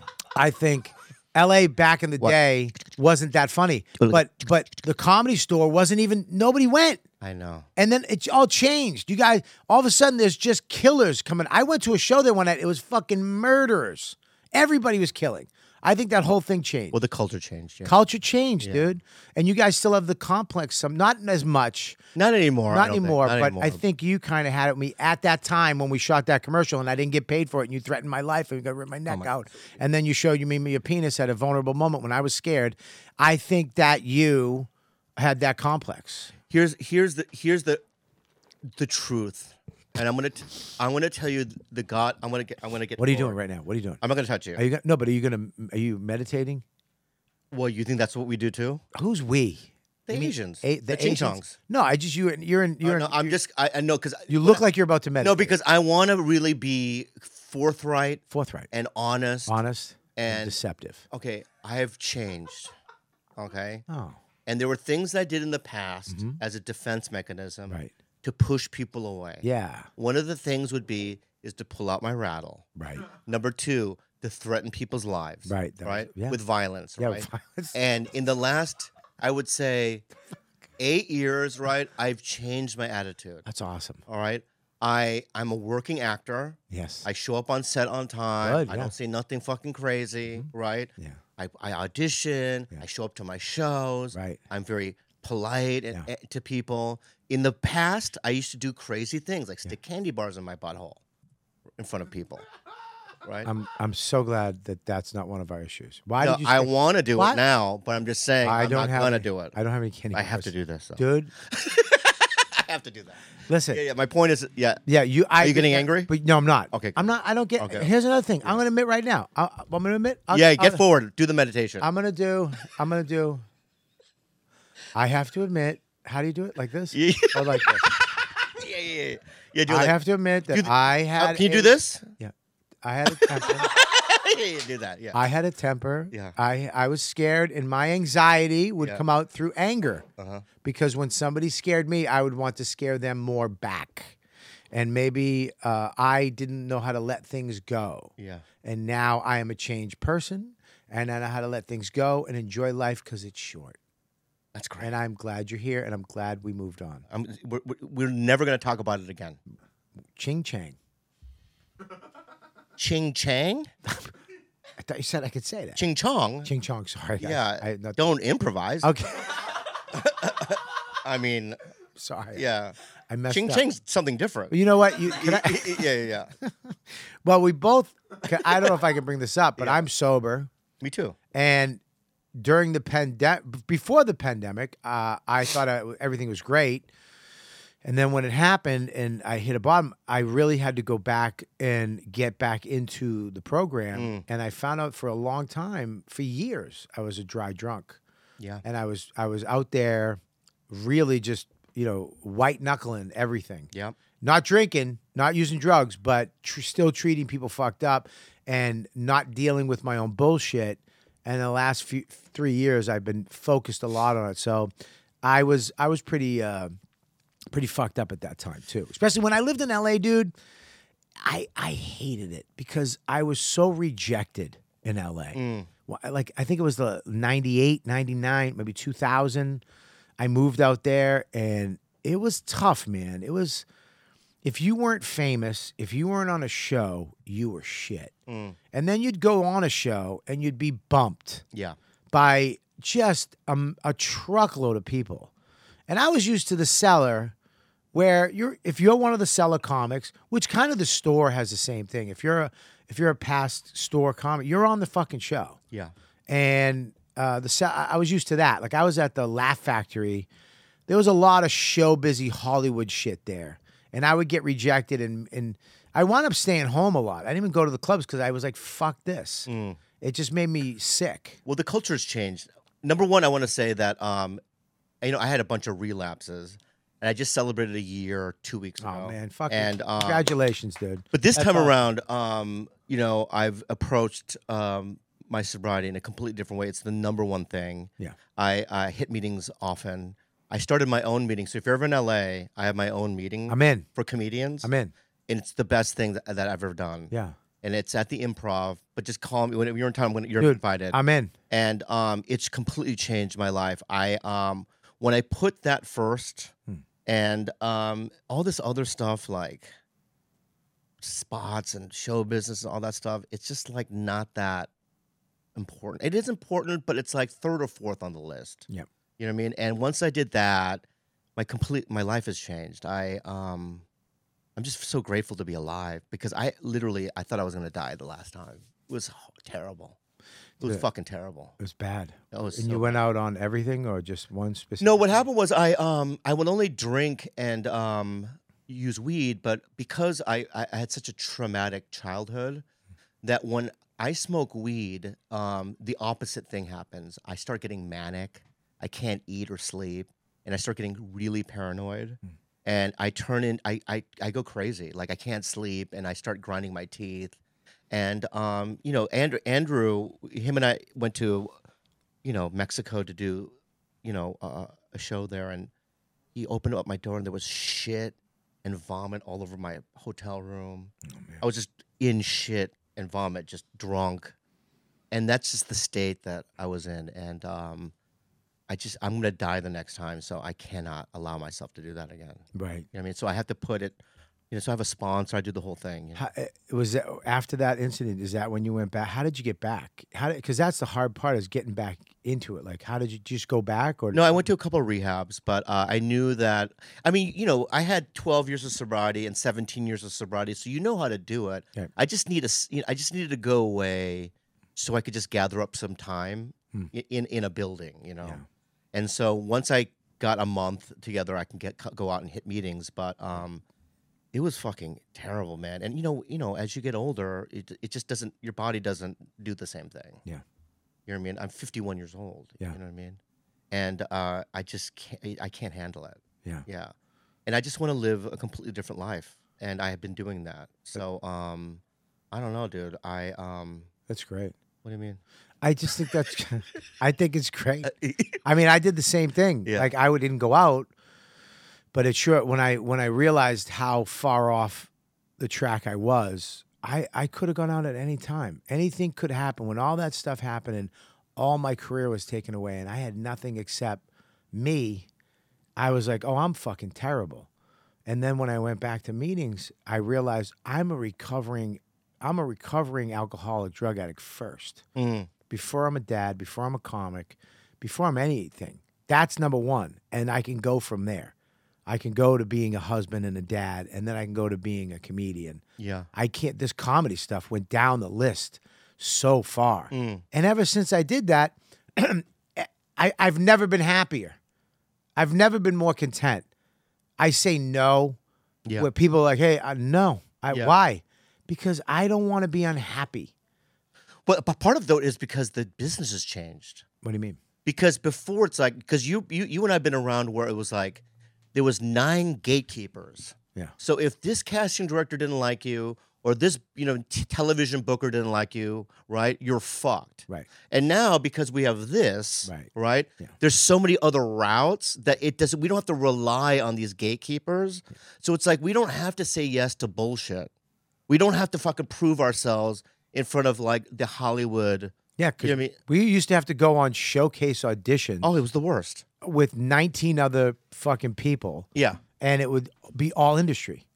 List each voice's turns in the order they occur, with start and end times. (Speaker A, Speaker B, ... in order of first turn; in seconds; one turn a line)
Speaker A: 0.3-7.0
Speaker B: 7.2-7.7
Speaker A: 7.8-17.0
Speaker B: 16.9-17.9
Speaker A: 17.8-22.0
Speaker B: 22.1-23.8
Speaker A: 22.7-36.3
Speaker B: 36.5-37.8
Speaker B: 38.7-43.4
Speaker A: 43.0-44.0
Speaker B: 44.0-44.6
Speaker A: 44.5-46.6
Speaker B: 47.5-48.8
Speaker A: 48.9-53.4
Speaker B: 50.1-51.5
Speaker B: 52.8-54.6
Speaker A: 54.3-55.5
Speaker B: 55.2-59.6
Speaker A: 58.3-58.7
Speaker A: 59.5-61.0
Speaker B: 60.1-60.6
Speaker B: 61.1-62.7
Speaker B: 63.4-63.8
Speaker A: 63.9-64.2
Speaker B: 64.5-69.5
Speaker A: 66.1-66.4
Speaker A: 69.4-69.9
Speaker B: 70.0-72.6
Speaker A: 72.8-73.1
Speaker B: 73.2-80.0
Speaker A: 75.5-76.4
Speaker A: 77.0-77.8
Speaker B: 80.8-83.4
Speaker A: 83.5-84.0
Speaker B: 84.1-101.0
Speaker A: 86.7-87.0
Speaker A: 88.4-88.9
Speaker A: 90.3-91.2
Speaker A: 94.1-94.4
Speaker B: 101.8-102.4
Speaker B: 103.2-103.5
Speaker A: 103.4-107.4
Speaker B: 106.2-109.5
Speaker A: 108.4-111.3
Speaker B: 110.1-114.8
Speaker A: 113.5-113.8
Speaker A: 114.9-120.8
Speaker B: 115.4-116.1
Speaker B: 116.7-117.0
Speaker B: 117.6-117.9
Speaker B: 120.3-121.8
Speaker A: 121.8-123.4
Speaker A: 124.9-127.9
Speaker B: 126.9-132.1
Speaker A: 129.7-133.7
Speaker B: 133.1-135.3
Speaker A: 135.1-140.0
Speaker B: 140.2-140.4
Speaker A: 140.6-144.1
Speaker A: 144.7-148.1
Speaker B: 148.2-148.4
Speaker A: 148.6-153.8
Speaker B: 154.5-154.9
Speaker A: 154.8-157.0
Speaker B: 157.1-159.4
Speaker A: 160.2-160.8
Speaker B: 162.8-163.7
Speaker A: 164.8-165.8
Speaker B: 165.8-166.5
Speaker A: 166.4-168.0
Speaker B: 167.2-168.9
Speaker A: 168.8-169.4
Speaker B: 169.9-171.6
Speaker A: 172.0-172.4
Speaker B: 172.3-172.8
Speaker A: 173.1-173.6
Speaker B: 173.3-176.3
Speaker A: 174.5-175.9
Speaker A: 176.4-176.7
Speaker A: 177.2-180.5
Speaker B: 179.6-179.8
Speaker B: 180.8-181.2
Speaker A: 181.3-181.8
Speaker A: 182.3-186.9
Speaker A: 187.8-198.0
Speaker B: 193.9-194.2
Speaker A: 198.6-203.7
Speaker B: 203.7-204.0
Speaker A: 204.2-214.7
Speaker A: 215.2-216.7
Speaker A: 217.5-220.3
Speaker A: 221.2-229.6
Speaker B: 225.3-225.7
Speaker A: 230.2-233.6
Speaker A: 234.4-238.1
Speaker B: 238.3-238.6
Speaker A: 238.7-241.4
Speaker A: 242.1-245.3
Speaker A: 245.9-247.3
Speaker A: 247.9-255.6
Speaker A: 256.3-260.3
Speaker A: 260.9-269.5
Speaker B: 269.4-269.8
Speaker A: 270.0-271.4
Speaker B: 271.4-274.4
Speaker B: 275.0-280.3
Speaker A: 278.8-281.8
Speaker B: 281.1-294.7
Speaker A: 293.5-293.9
Speaker A: 294.6-294.9
Speaker B: 295.3-301.0
Speaker A: 297.1-297.4
Speaker A: 300.4-301.3
Speaker B: 301.5-306.5
Speaker B: 307.1-309.7
Speaker B: 311.0-314.7
Speaker B: 315.5-318.6
Speaker B: 319.2-320.8
Speaker B: 321.4-323.8
Speaker B: 324.6-330.0
Speaker B: 330.6-331.5
Speaker A: 330.6-330.9
Speaker A: 331.6-335.0
Speaker B: 332.3-333.0
Speaker B: 334.8-342.6
Speaker B: 343.2-357.4
Speaker B: 357.9-361.5
Speaker B: 362.2-365.7
Speaker B: 366.3-374.3
Speaker B: 375.1-377.9
Speaker B: 378.7-384.0
Speaker A: 382.5-382.9
Speaker B: 384.5-386.2
Speaker A: 386.1-394.4
Speaker B: 394.1-413.6
Speaker B: 414.3-420.2
Speaker B: 421.1-423.2
Speaker B: 423.7-426.9
Speaker B: 427.4-433.9
Speaker A: 434.1-434.5
Speaker B: 434.8-435.2
Speaker A: 435.6-437.9
Speaker B: 437.8-438.4
Speaker A: 438.4-440.9
Speaker B: 439.6-439.9
Speaker A: 441.9-455.1
Speaker A: 455.8-457.5
Speaker A: 458.1-464.8
Speaker B: 464.9-465.3
Speaker A: 465.5-471.3
Speaker A: 471.9-475.6
Speaker B: 475.8-476.1
Speaker A: 476.1-484.4
Speaker B: 479.9-480.2
Speaker A: 485.2-486.4
Speaker A: 487.2-488.2
Speaker A: 488.8-493.3
Speaker B: 494.2-496.8
Speaker A: 497.0-497.4
Speaker B: 497.6-501.0
Speaker B: 501.5-520.5
Speaker A: 512.5-512.7
Speaker B: 521.1-525.8
Speaker A: 525.2-528.3
Speaker B: 528.2-529.0
Speaker A: 529.2-531.7
Speaker B: 531.7-532.0
Speaker A: 532.2-533.8